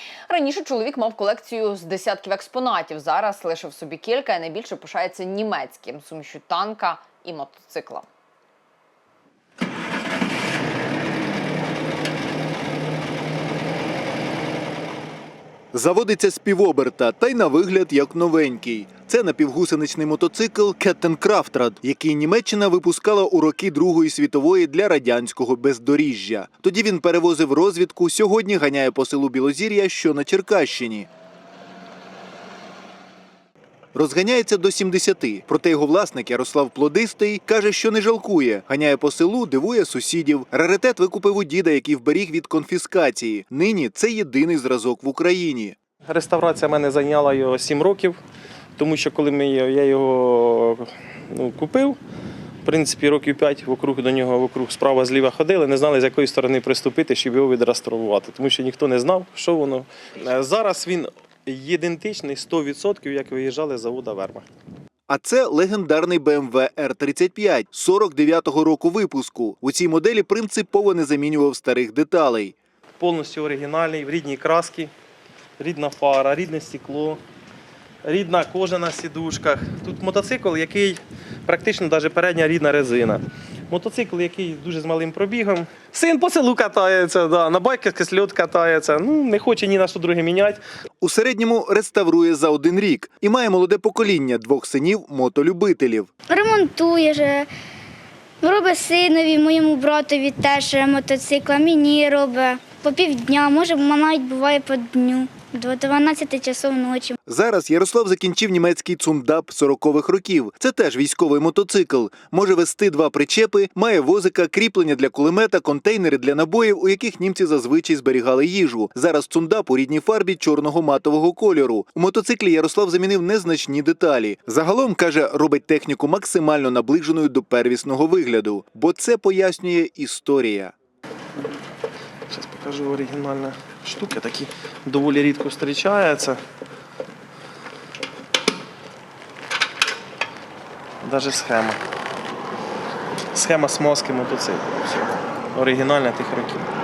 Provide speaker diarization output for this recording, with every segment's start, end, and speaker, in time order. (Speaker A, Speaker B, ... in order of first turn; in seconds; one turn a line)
Speaker A: 0.3-8.1
Speaker B: 15.7-31.1
Speaker B: 33.9-45.8
Speaker C: 46.1-48.2
Speaker C: 48.8-52.0
Speaker C: 52.6-64.4
Speaker B: 65.1-72.5
Speaker C: 73.0-74.9
Speaker C: 75.6-77.2
Speaker C: 78.0-90.6
Speaker B: 91.0-96.1
Speaker D: 96.3-97.5
Speaker D: 98.4-107.1
Speaker B: 107.3-130.7
Speaker C: 132.3-136.4
Speaker C: 141.0-141.8
Speaker C: 143.3-146.7